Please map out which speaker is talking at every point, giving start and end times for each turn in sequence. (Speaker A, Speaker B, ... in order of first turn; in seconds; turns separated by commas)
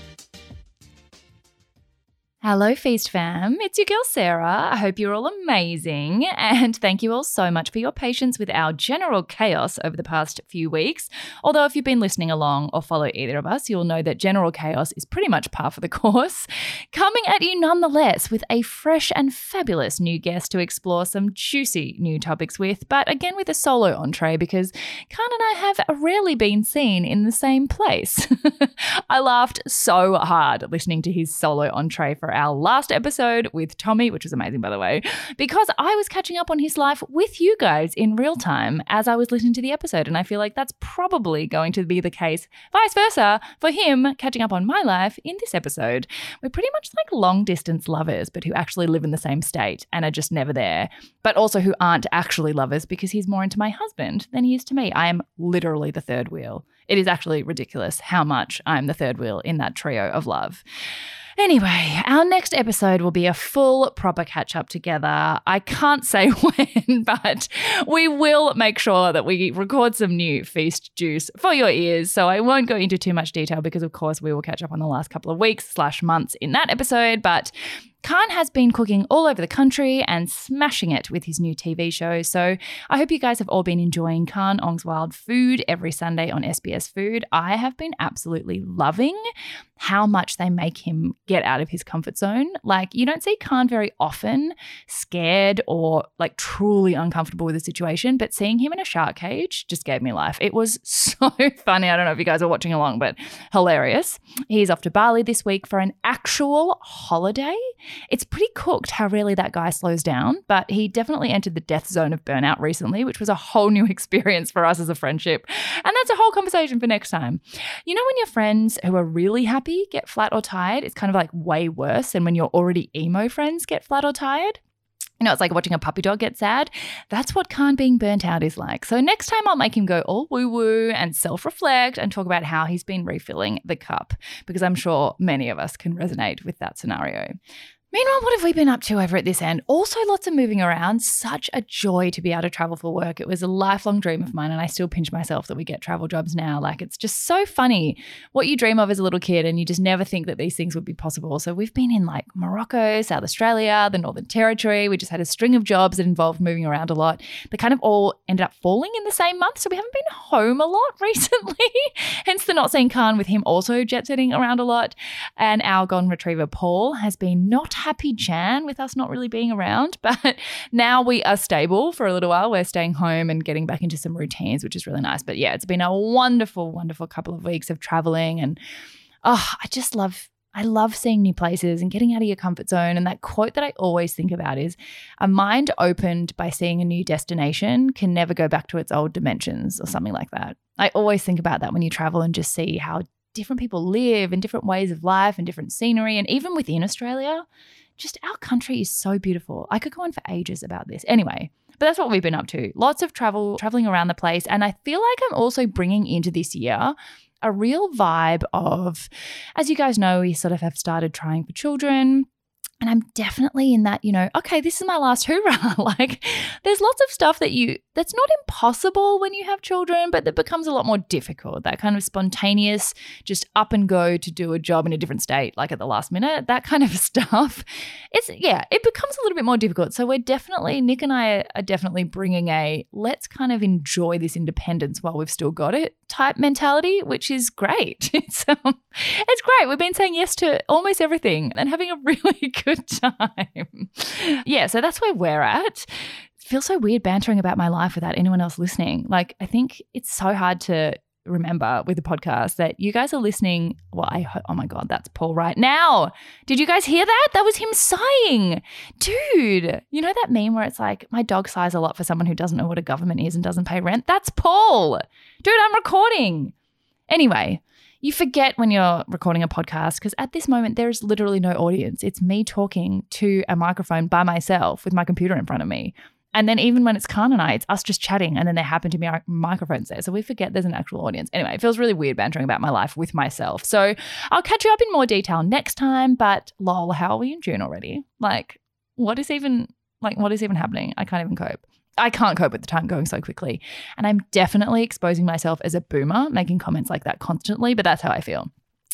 Speaker A: 2.4-60.6, Speaker A: 61.4-77.5, Speaker A: 78.0-89.2, Speaker A: 89.8-124.6, Speaker A: 125.2-137.4, Speaker A: 137.9-178.6, Speaker A: 179.2-197.5, Speaker A: 198.0-212.3, Speaker A: 212.8-266.5, Speaker A: 267.1-298.5